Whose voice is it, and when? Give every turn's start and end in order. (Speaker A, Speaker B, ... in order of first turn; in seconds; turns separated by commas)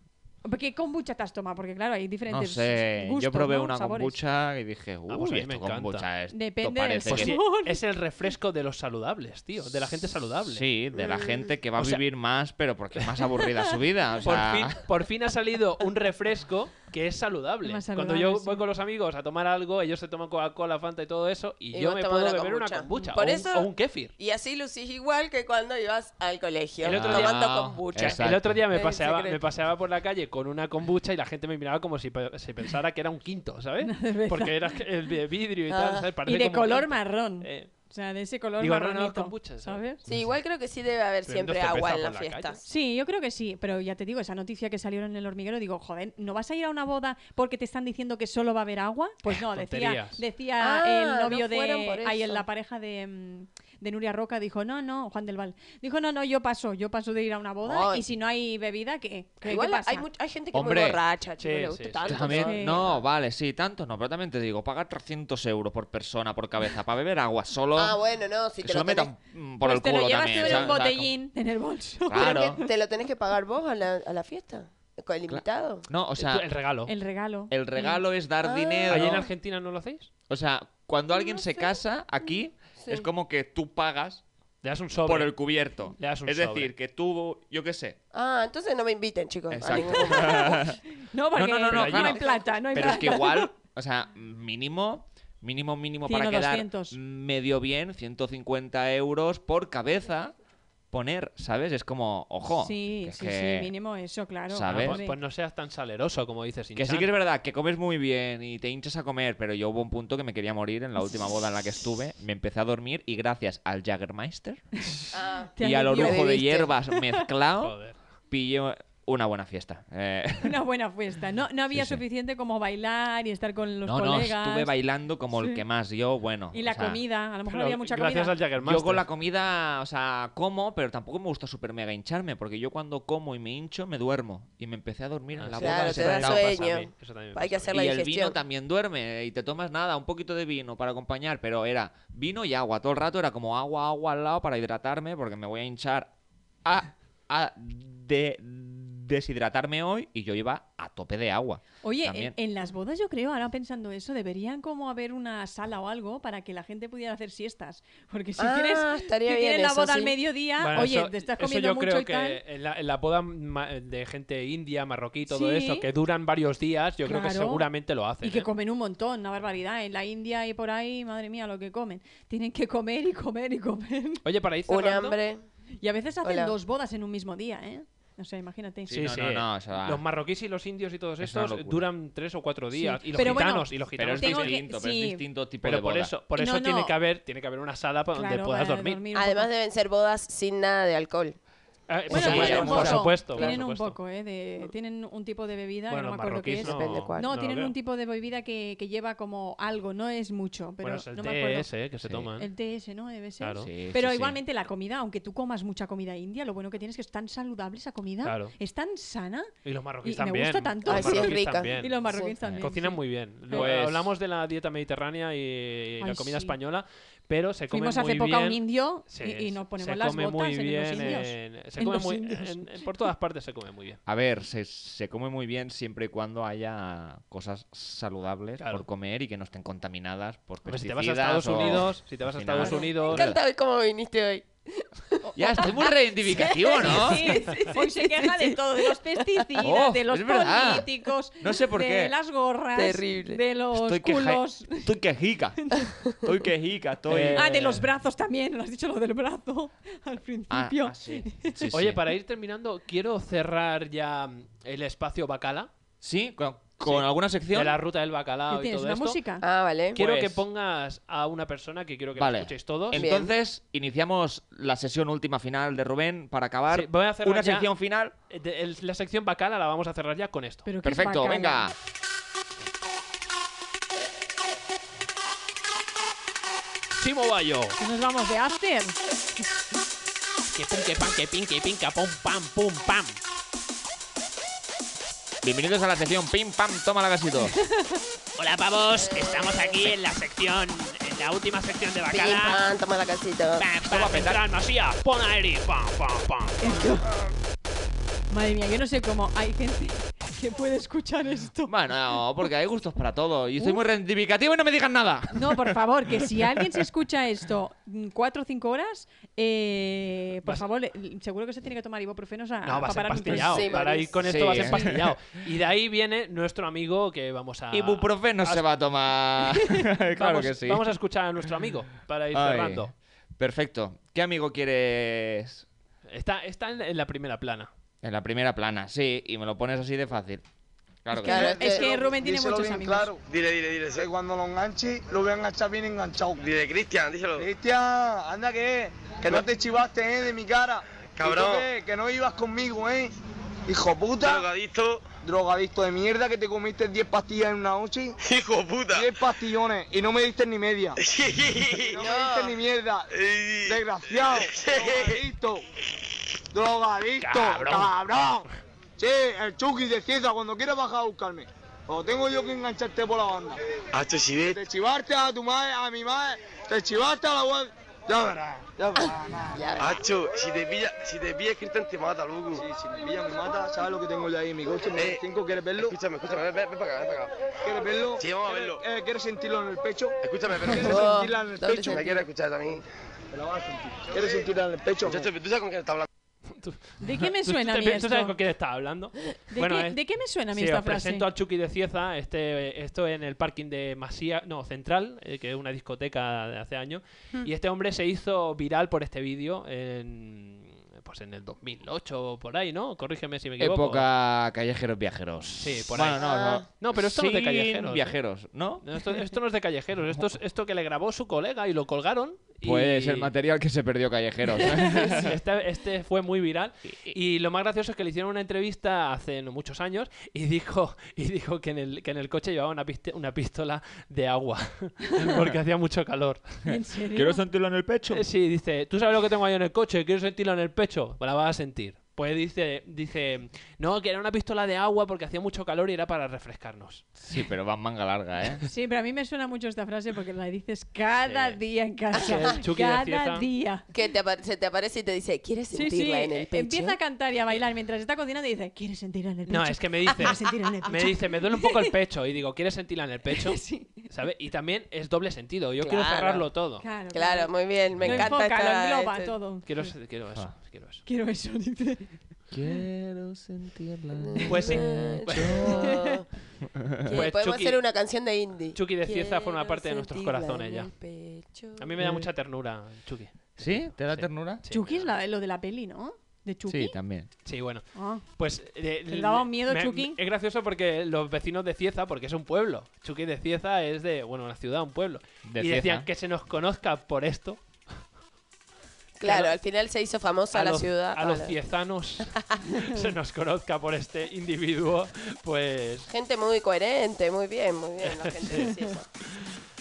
Speaker A: 0.4-4.2, Speaker B: 2.3-7.4, Speaker C: 5.1-6.1, Speaker A: 6.3-7.8, Speaker C: 7.1-10.6, Speaker B: 10.4-14.9, Speaker D: 10.9-11.5, Speaker C: 11.8-12.0, Speaker C: 14.2-24.1, Speaker A: 17.6-18.6, Speaker D: 21.7-29.4, Speaker C: 26.8-37.7, Speaker B: 26.9-28.6, Speaker A: 33.8-34.6, Speaker D: 35.7-36.1, Speaker A: 36.2-40.0, Speaker C: 38.6-40.2, Speaker D: 40.1-42.6, Speaker C: 41.2-42.6, Speaker A: 42.6-60.0, Speaker C: 49.3-50.2, Speaker D: 50.6-52.4, Speaker D: 57.6-58.0, Speaker D: 59.4-63.0, Speaker B: 60.5-61.0, Speaker C: 61.4-62.5, Speaker B: 62.0-68.0, Speaker A: 62.4-62.8, Speaker D: 67.8-69.1, Speaker B: 68.6-71.1, Speaker A: 69.6-72.7, Speaker D: 70.3-70.7, Speaker B: 72.1-72.6, Speaker D: 72.1-75.8, Speaker B: 75.3-76.4, Speaker C: 76.2-76.9, Speaker A: 76.9-77.5, Speaker B: 77.5-79.3, Speaker D: 78.4-79.3, Speaker C: 78.9-80.1, Speaker B: 80.3-84.2, Speaker D: 82.8-83.0, Speaker C: 84.6-86.7, Speaker B: 85.0-88.0, Speaker D: 88.1-90.7, Speaker B: 89.5-90.8, Speaker A: 89.8-93.5, Speaker B: 91.3-100.3, Speaker C: 91.7-92.4, Speaker A: 96.0-97.0, Speaker B: 100.9-103.7, Speaker A: 102.6-105.2, Speaker B: 104.5-105.0, Speaker C: 104.7-107.1, Speaker B: 106.8-114.7, Speaker D: 115.1-116.7, Speaker A: 115.5-117.1, Speaker B: 115.6-117.8, Speaker C: 117.6-118.0, Speaker B: 118.3-120.5, Speaker A: 120.4-124.7, Speaker B: 121.7-122.0, Speaker B: 123.8-127.0, Speaker A: 125.3-125.6, Speaker A: 126.5-128.3, Speaker C: 127.5-129.1, Speaker B: 128.6-136.5, Speaker C: 135.4-137.7, Speaker D: 135.6-138.4, Speaker B: 137.7-146.1, Speaker B: 146.6-152.3, Speaker A: 151.8-162.4, Speaker D: 158.4-160.2, Speaker C: 160.6-168.5, Speaker A: 165.2-165.8, Speaker A: 167.0-167.7, Speaker A: 168.2-174.2, Speaker C: 174.2-175.2, Speaker D: 174.7-175.4, Speaker A: 175.8-179.0, Speaker D: 176.2-176.5, Speaker B: 178.9-180.0, Speaker C: 178.9-184.6, Speaker B: 181.2-181.9, Speaker A: 182.7-185.2, Speaker B: 183.2-186.1, Speaker C: 185.6-189.0, Speaker A: 186.3-186.9, Speaker A: 188.1-189.5, Speaker D: 189.1-191.4, Speaker C: 191.9-194.0, Speaker B: 192.1-193.2, Speaker A: 192.1-201.7, Speaker D: 192.3-193.6, Speaker C: 195.9-197.7, Speaker D: 196.6-197.3, Speaker C: 200.8-202.5, Speaker B: 202.0-202.3, Speaker A: 202.4-209.5, Speaker C: 203.4-203.7, Speaker B: 203.6-204.4, Speaker C: 208.2-208.5, Speaker C: 209.6-224.0, Speaker A: 210.0-213.7, Speaker D: 210.8-212.3, Speaker B: 212.4-212.7, Speaker B: 213.5-214.1, Speaker A: 216.0-216.5, Speaker A: 217.7-222.9, Speaker B: 224.1-233.4, Speaker C: 228.6-228.8, Speaker C: 230.7-233.3, Speaker D: 232.6-239.2, Speaker A: 235.2-235.8, Speaker B: 235.3-237.4, Speaker A: 236.4-244.9, Speaker B: 239.6-242.1, Speaker D: 242.8-243.4, Speaker B: 243.7-247.6, Speaker C: 247.1-247.8, Speaker A: 247.3-251.5, Speaker B: 250.5-252.0, Speaker C: 251.7-255.7, Speaker B: 256.0-257.8, Speaker C: 256.8-259.2, Speaker A: 258.5-259.4, Speaker D: 259.4-260.3, Speaker C: 259.9-263.1, Speaker B: 260.1-260.4, Speaker B: 262.1-268.1, Speaker D: 262.9-263.3, Speaker C: 266.7-267.7, Speaker C: 268.3-270.7, Speaker A: 270.6-271.7, Speaker B: 270.8-271.7, Speaker C: 276.9-277.8, Speaker A: 277.8-278.9, Speaker C: 280.5-283.2, Speaker B: 285.4-287.5, Speaker A: 287.5-288.0, Speaker C: 288.4-292.7, Speaker D: 288.9-289.9, Speaker D: 292.1-293.7, Speaker C: 293.6-296.6, Speaker B: 293.8-294.4, Speaker A: 296.6-297.1, Speaker D: 296.7-297.1, Speaker A: 298.3-301.7, Speaker B: 301.6-305.8, Speaker A: 305.3-313.8, Speaker C: 312.6-318.6, Speaker D: 313.3-314.6, Speaker B: 314.2-315.2, Speaker B: 317.7-320.9, Speaker C: 320.2-322.9, Speaker B: 322.3-325.7, Speaker C: 326.1-327.7, Speaker B: 328.0-330.4, Speaker B: 331.0-331.6, Speaker A: 331.1-333.1, Speaker D: 331.2-331.9, Speaker E: 331.3-333.2, Speaker F: 333.2-334.1, Speaker E: 333.9-336.4, Speaker F: 336.4-337.5, Speaker E: 337.4-343.1, Speaker F: 341.2-341.6, Speaker E: 343.7-344.5, Speaker F: 344.2-345.0, Speaker E: 345.2-348.1, Speaker F: 348.2-349.1, Speaker E: 348.9-351.0, Speaker F: 351.0-352.0, Speaker E: 351.8-353.1, Speaker D: 352.0-352.5, Speaker F: 353.1-355.2, Speaker E: 353.6-355.6, Speaker E: 356.5-358.4, Speaker C: 357.2-357.9, Speaker E: 359.0-363.6, Speaker F: 363.9-364.6, Speaker E: 364.4-370.0, Speaker D: 369.5-370.0, Speaker F: 369.8-372.6, Speaker E: 372.5-376.4, Speaker F: 374.9-375.2, Speaker F: 375.8-377.3, Speaker E: 377.6-382.3, Speaker F: 378.2-378.8, Speaker F: 380.2-381.1, Speaker D: 380.8-382.1, Speaker F: 381.8-382.8, Speaker E: 383.3-385.3, Speaker F: 385.0-386.1, Speaker C: 386.5-404.1, Speaker A: 387.0-388.3, Speaker A: 389.5-391.2, Speaker B: 403.6-408.8, Speaker C: 405.6-408.1, Speaker D: 406.2-406.7, Speaker C: 408.8-413.3, Speaker B: 412.6-415.4, Speaker C: 414.8-426.6, Speaker B: 416.9-417.1, Speaker A: 426.7-427.4, Speaker B: 427.1-428.2, Speaker C: 428.1-437.1, Speaker B: 437.2-438.6, Speaker A: 438.6-443.9, Speaker C: 441.2-441.6, Speaker C: 442.1-443.5, Speaker D: 443.9-447.0, Speaker A: 445.7-451.9, Speaker C: 449.5-456.8, Speaker A: 453.4-454.1, Speaker D: 455.8-456.5, Speaker A: 456.8-459.9, Speaker D: 457.1-459.3, Speaker B: 457.9-458.3, Speaker C: 459.6-461.0, Speaker A: 461.1-462.1, Speaker B: 462.5-465.8, Speaker D: 464.2-466.3, Speaker C: 464.5-465.6, Speaker B: 466.9-467.2, Speaker D: 467.1-471.9, Speaker C: 467.1-467.8, Speaker C: 468.7-470.9, Speaker C: 471.8-475.1, Speaker B: 472.0-472.3, Speaker B: 473.6-474.6, Speaker A: 474.7-477.0, Speaker B: 476.7-477.3, Speaker C: 477.4-487.8, Speaker A: 477.9-478.2, Speaker A: 479.1-480.2, Speaker B: 485.4-486.1, Speaker D: 489.2-491.5, Speaker C: 489.2-489.6, Speaker C: 490.5-496.1, Speaker D: 496.1-499.1, Speaker C: 498.0-498.7, Speaker A: 498.6-498.9